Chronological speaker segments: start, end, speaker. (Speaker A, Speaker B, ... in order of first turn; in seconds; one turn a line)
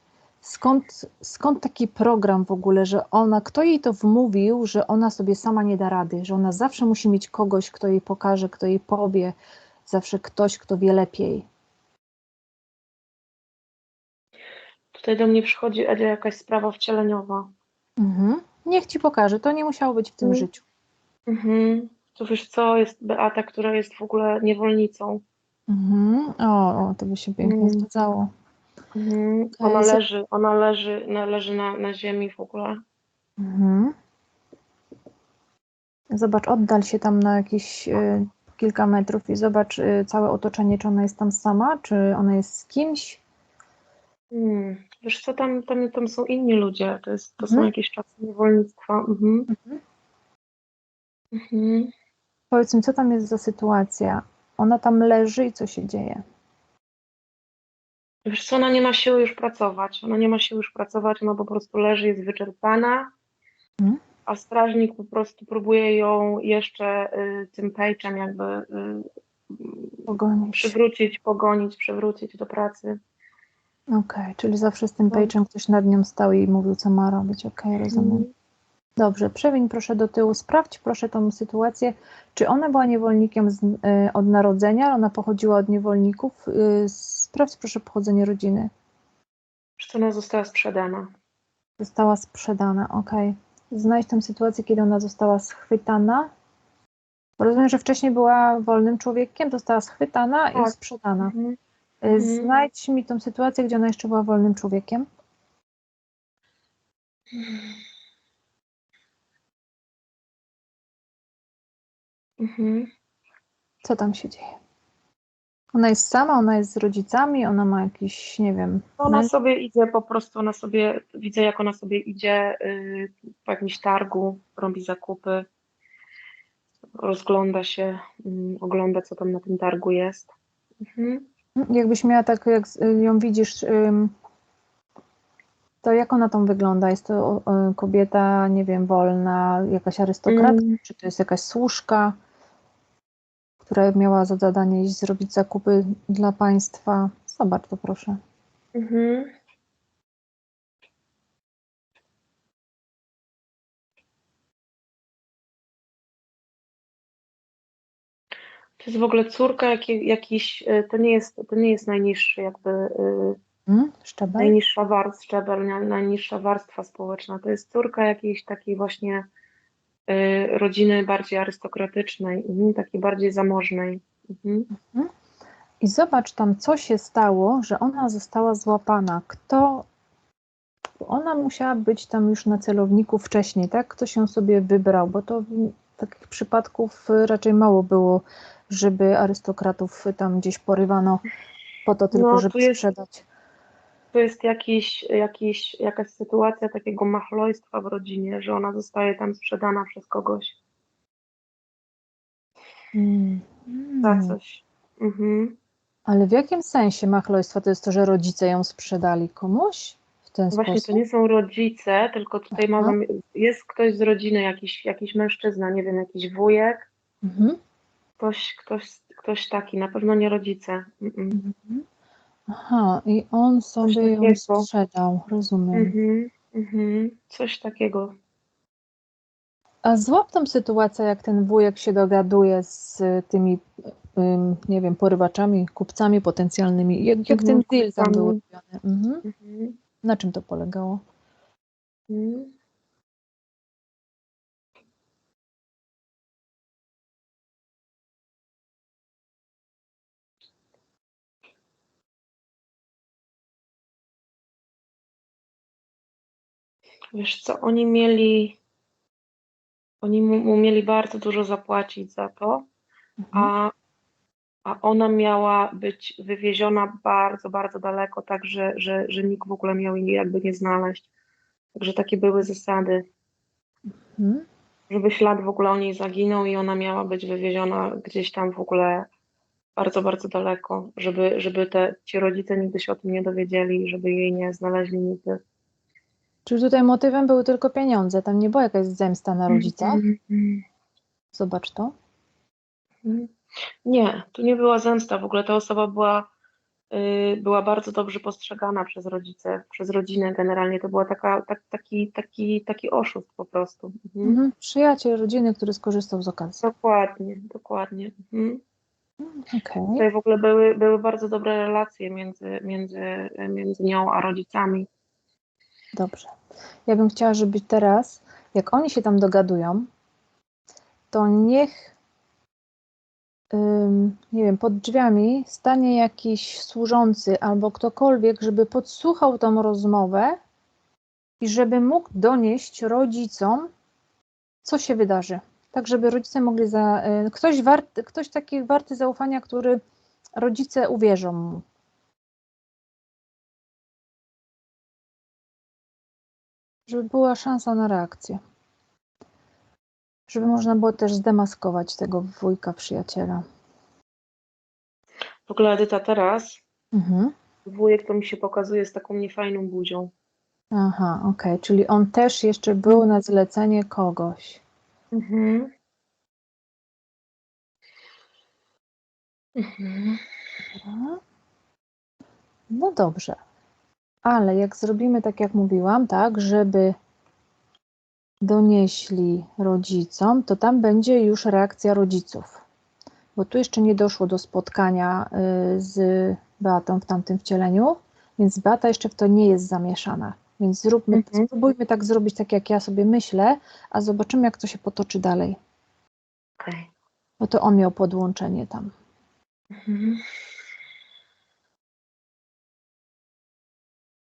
Speaker A: 0.4-11.4
Speaker B: 14.9-17.5
Speaker A: 18.0-20.6
Speaker B: 21.3-25.2
Speaker A: 25.7-28.3
Speaker B: 27.4-27.8
Speaker B: 28.9-32.8
Speaker A: 29.6-30.0
Speaker A: 33.4-33.9
Speaker A: 36.1-43.2
Speaker B: 44.3-49.5
Speaker A: 47.4-47.7
Speaker A: 49.5-49.8
Speaker B: 51.3-51.9
Speaker A: 52.5-56.2
Speaker B: 58.2-63.1
Speaker B: 64.3-73.0
Speaker A: 70.1-70.7
Speaker A: 73.9-78.2
Speaker B: 77.9-78.3
Speaker A: 79.0-88.7
Speaker B: 89.8-91.1
Speaker A: 91.8-96.3
Speaker A: 97.4-101.3
Speaker B: 100.5-101.6
Speaker A: 102.0-105.0
Speaker B: 102.1-102.6
Speaker B: 107.3-107.8
Speaker B: 112.4-112.9
Speaker A: 113.8-114.5
Speaker A: 115.7-119.3
Speaker B: 119.0-125.5
Speaker B: 127.0-130.3
Speaker B: 130.8-131.2
Speaker A: 131.6-134.1
Speaker A: 135.8-142.1
Speaker B: 140.3-140.8
Speaker A: 143.6-148.2
Speaker B: 148.7-149.3
Speaker B: 158.8-163.4
Speaker A: 163.7-164.5
Speaker B: 164.4-169.2
Speaker B: 170.1-174.7
Speaker A: 174.7-175.1
Speaker A: 175.8-179.8
Speaker A: 181.0-191.2
Speaker A: 191.8-193.2
Speaker B: 192.1-192.8
Speaker B: 194.1-200.6
Speaker A: 202.9-204.4
Speaker B: 204.0-205.5
Speaker A: 206.1-211.0
Speaker B: 210.5-216.9
Speaker A: 212.5-213.0
Speaker A: 217.2-217.6
Speaker B: 218.2-221.4
Speaker A: 221.3-221.8
Speaker A: 222.5-225.9
Speaker B: 223.8-224.7
Speaker B: 225.7-228.1
Speaker A: 229.8-239.2
Speaker B: 237.3-238.4
Speaker B: 239.2-239.8
Speaker A: 240.0-241.0
Speaker B: 242.1-242.5
Speaker B: 257.1-258.6
Speaker B: 260.0-262.6
Speaker A: 263.2-263.5
Speaker B: 263.3-263.7
Speaker B: 264.6-271.1
Speaker B: 271.8-273.0
Speaker A: 274.1-274.4
Speaker B: 274.9-279.1
Speaker B: 279.8-285.4
Speaker A: 286.4-290.0
Speaker B: 289.5-290.6
Speaker A: 291.3-291.9
Speaker B: 293.0-293.3
Speaker B: 293.9-296.3
Speaker B: 296.9-304.4
Speaker A: 304.2-306.6
Speaker B: 306.6-308.6
Speaker A: 309.2-310.0
Speaker B: 309.9-314.9
Speaker A: 315.9-316.3
Speaker A: 316.9-319.9
Speaker A: 321.1-321.9
Speaker A: 323.5-330.4
Speaker A: 331.4-333.7
Speaker A: 334.6-339.8
Speaker A: 340.4-341.6
Speaker A: 346.9-348.4
Speaker A: 350.3-353.4
Speaker B: 355.5-356.6
Speaker A: 356.9-357.3
Speaker B: 357.6-360.1
Speaker A: 360.7-364.6
Speaker B: 365.1-365.7
Speaker B: 369.6-370.2
Speaker A: 370.7-371.2
Speaker A: 372.7-373.4
Speaker A: 374.2-376.9
Speaker A: 378.4-382.6
Speaker A: 383.4-395.6
Speaker B: 391.1-391.5
Speaker B: 396.6-396.9
Speaker A: 397.4-398.9
Speaker B: 399.8-400.2